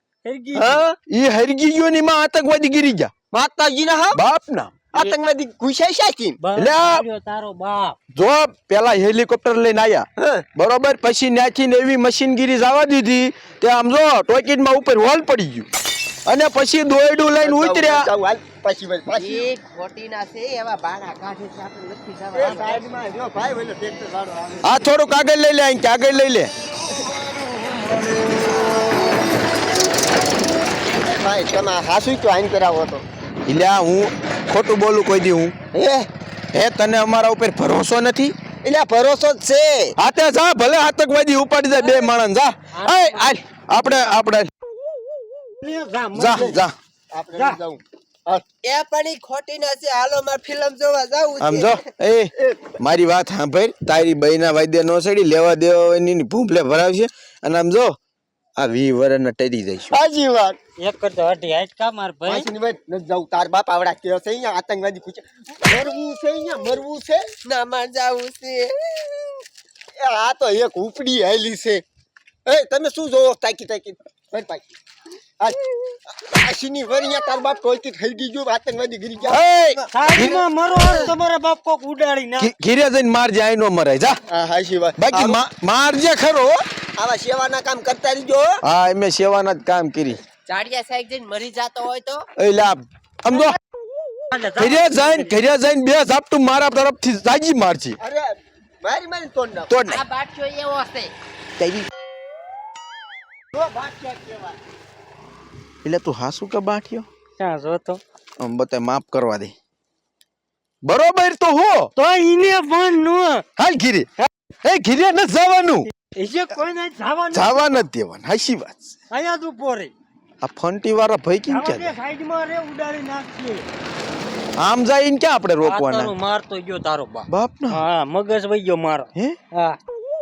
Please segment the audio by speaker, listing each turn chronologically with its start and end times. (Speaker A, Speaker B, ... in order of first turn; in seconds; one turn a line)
Speaker A: 0.2-0.8
Speaker B: 0.6-1.0
Speaker C: 1.1-3.1
Speaker B: 3.3-4.2
Speaker C: 4.2-4.8
Speaker B: 4.9-6.4
Speaker A: 6.4-8.0
Speaker C: 6.6-7.0
Speaker C: 8.1-15.7
Speaker B: 10.2-10.4
Speaker C: 16.3-18.1
Speaker B: 17.4-19.5
Speaker D: 19.1-22.9
Speaker B: 22.3-24.6
Speaker A: 22.4-22.8
Speaker C: 24.6-26.5
Speaker B: 31.0-33.0
Speaker C: 33.5-35.5
Speaker B: 35.7-36.1
Speaker C: 36.5-38.4
Speaker B: 38.6-39.9
Speaker C: 40.0-44.5
Speaker A: 42.8-43.3
Speaker A: 45.6-46.5
Speaker C: 46.1-46.8
Speaker B: 46.2-48.4
Speaker A: 47.3-47.6
Speaker D: 48.6-51.8
Speaker C: 51.4-58.0
Speaker B: 52.4-52.8
Speaker C: 58.6-60.0
Speaker B: 59.9-60.6
Speaker A: 60.8-62.5
Speaker B: 62.2-67.2
Speaker D: 67.5-69.4
Speaker B: 70.0-71.8
Speaker B: 72.5-74.7
Speaker B: 75.4-80.2
Speaker C: 79.3-80.5
Speaker A: 79.9-82.5
Speaker C: 82.4-84.2
Speaker B: 84.3-85.4
Speaker C: 85.0-86.6
Speaker B: 87.0-88.6
Speaker C: 88.6-90.2
Speaker D: 90.5-92.3
Speaker C: 92.4-93.6
Speaker A: 94.3-95.2
Speaker C: 94.6-98.0
Speaker B: 98.0-99.7
Speaker C: 99.7-100.0
Speaker D: 99.9-101.1
Speaker C: 101.6-101.9
Speaker B: 103.5-104.6
Speaker C: 105.8-107.1
Speaker A: 107.4-108.0
Speaker C: 108.4-109.5
Speaker C: 110.8-111.9
Speaker A: 112.0-113.5
Speaker C: 113.6-115.9
Speaker A: 116.1-117.7
Speaker C: 117.3-119.0
Speaker A: 119.1-119.9
Speaker C: 120.4-121.9
Speaker A: 121.5-123.7
Speaker C: 124.6-126.1
Speaker A: 125.6-129.8
Speaker C: 127.3-127.8